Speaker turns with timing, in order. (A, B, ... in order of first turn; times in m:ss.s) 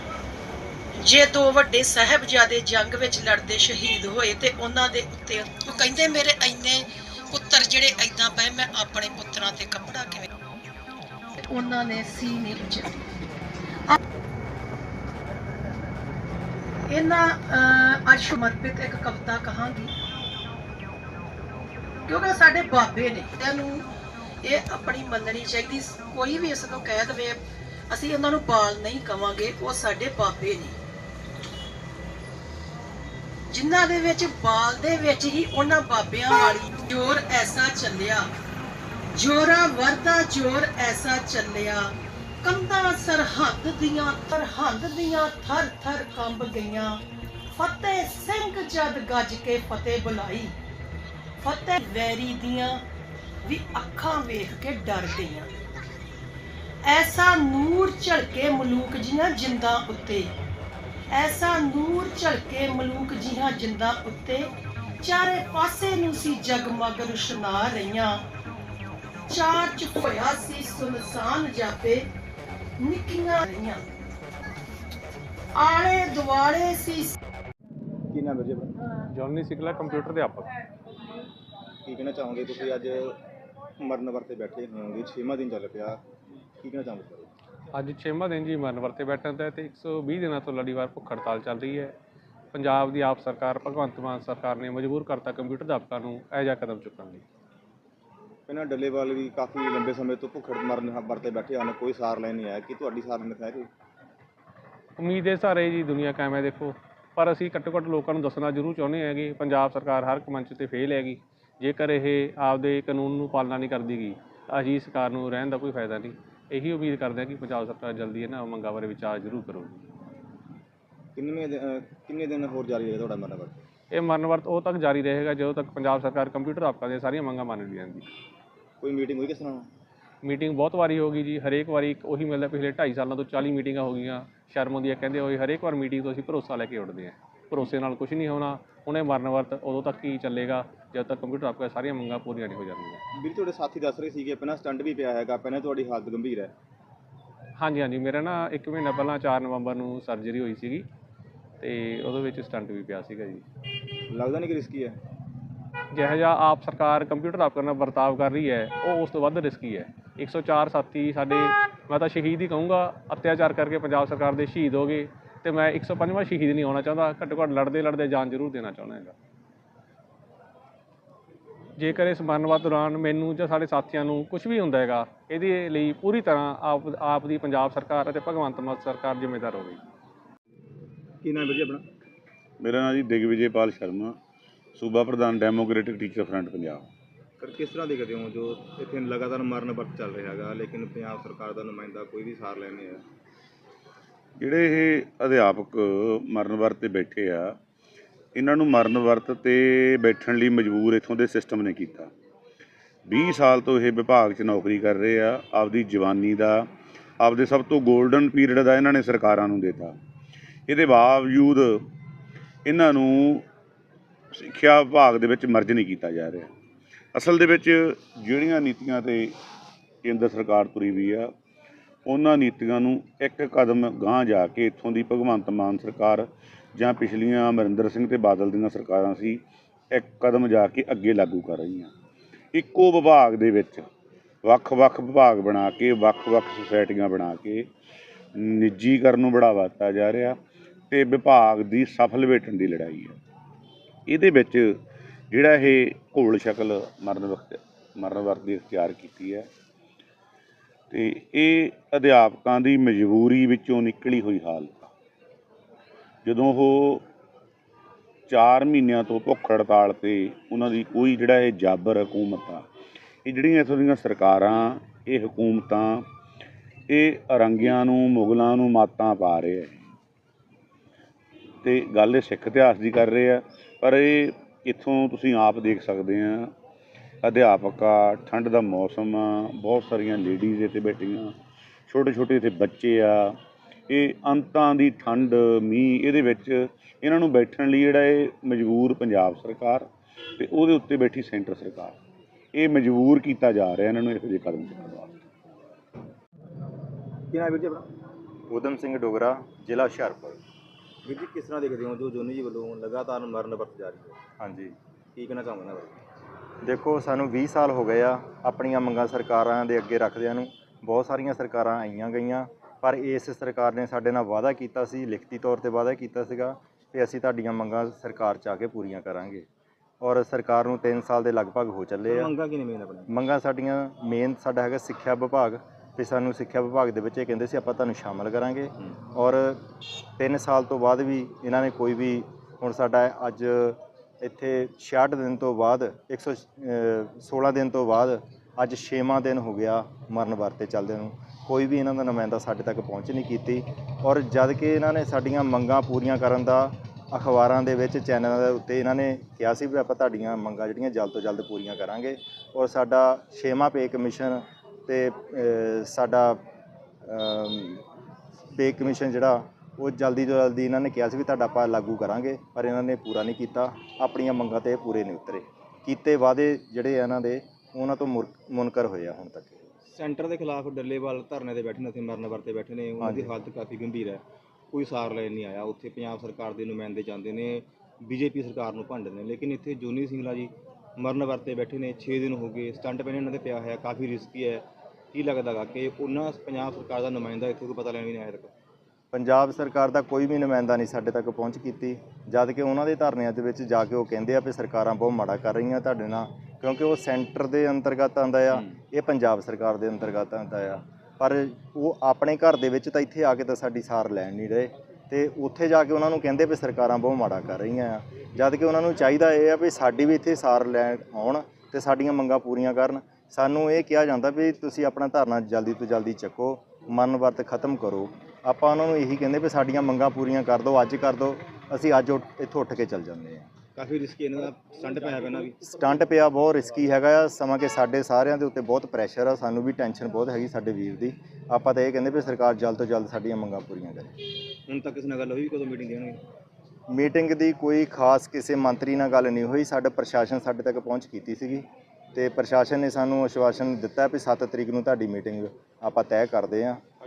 0:01.0-0:10.3 A
0:11.4-0:13.0 A
0:16.9-0:19.9 A
0:22.1-0:23.9 A
0:24.4-0:27.4 A
0:27.9-0:30.8 A
0:33.5-0:38.3 A
0:39.1-0:47.0 A
0:47.5-0:50.6 A
0:51.4-0:52.8 A
0:53.4-0:55.5 A
0:56.8-1:00.3 A
1:01.1-1:08.2 A
1:09.3-1:12.1 A
1:12.8-1:13.8 A
1:15.6-1:17.2 A
1:18.1-1:18.7 B
1:19.1-1:20.5 C
1:21.8-1:23.2 B
1:23.8-1:26.0 B
1:26.6-1:27.3 B
1:27.7-1:32.0 C
1:32.5-1:37.2 C
1:38.5-1:43.7 B
1:45.0-1:59.9 C
2:01.2-2:03.6 B
2:03.9-2:08.1 C
2:08.8-2:09.7 B
2:10.2-2:23.0 C
2:23.1-2:26.5 B
2:27.6-2:30.9 C
2:31.6-2:33.4 C
2:34.1-2:35.0 B
2:35.9-2:49.2 C
2:51.8-2:59.8 C
3:01.2-3:01.9 B
3:02.6-3:04.1 D
3:04.8-3:06.9 D
3:07.4-3:13.0 B
3:14.4-3:17.6 D
3:18.4-3:22.1 D
3:23.1-3:26.7 D
3:27.2-3:30.0 D
3:30.7-3:31.7 D
3:32.7-3:33.4 D
3:34.3-3:36.5 D
3:37.2-3:39.4 D
3:40.0-3:41.3 D
3:42.1-3:49.4 D
3:49.9-3:51.9 D
3:52.5-3:53.9 D
3:54.4-3:57.7 D
3:58.4-4:00.4 D
4:00.9-4:03.2 D
4:04.1-4:04.7 D
4:05.3-4:09.5 D
4:10.9-4:14.9 D
4:16.2-4:17.0 D
4:18.3-4:22.6 D
4:23.2-4:26.0 D
4:26.9-4:29.8 D
4:31.6-4:36.5 D
4:37.2-4:41.3 D
4:41.9-4:43.4 D
4:43.9-4:49.9 D
4:50.4-4:52.0 D
4:52.5-4:55.2 D
4:57.3-4:57.9 B
4:58.5-5:00.4 E
5:01.0-5:04.2 B
5:04.4-5:04.7 E
5:05.2-5:06.0 B
5:06.6-5:19.5 E
5:20.0-5:22.3 E
5:22.1-5:23.1 B
5:23.1-5:56.4 E
5:57.0-5:57.8 E
5:58.6-6:09.6 E
6:09.9-6:28.5 B
6:13.0-6:13.3 E
6:29.1-7:03.5 E
7:03.8-7:05.6 B
7:05.6-7:14.1 E
7:14.7-7:16.2 B
7:16.9-7:26.8 E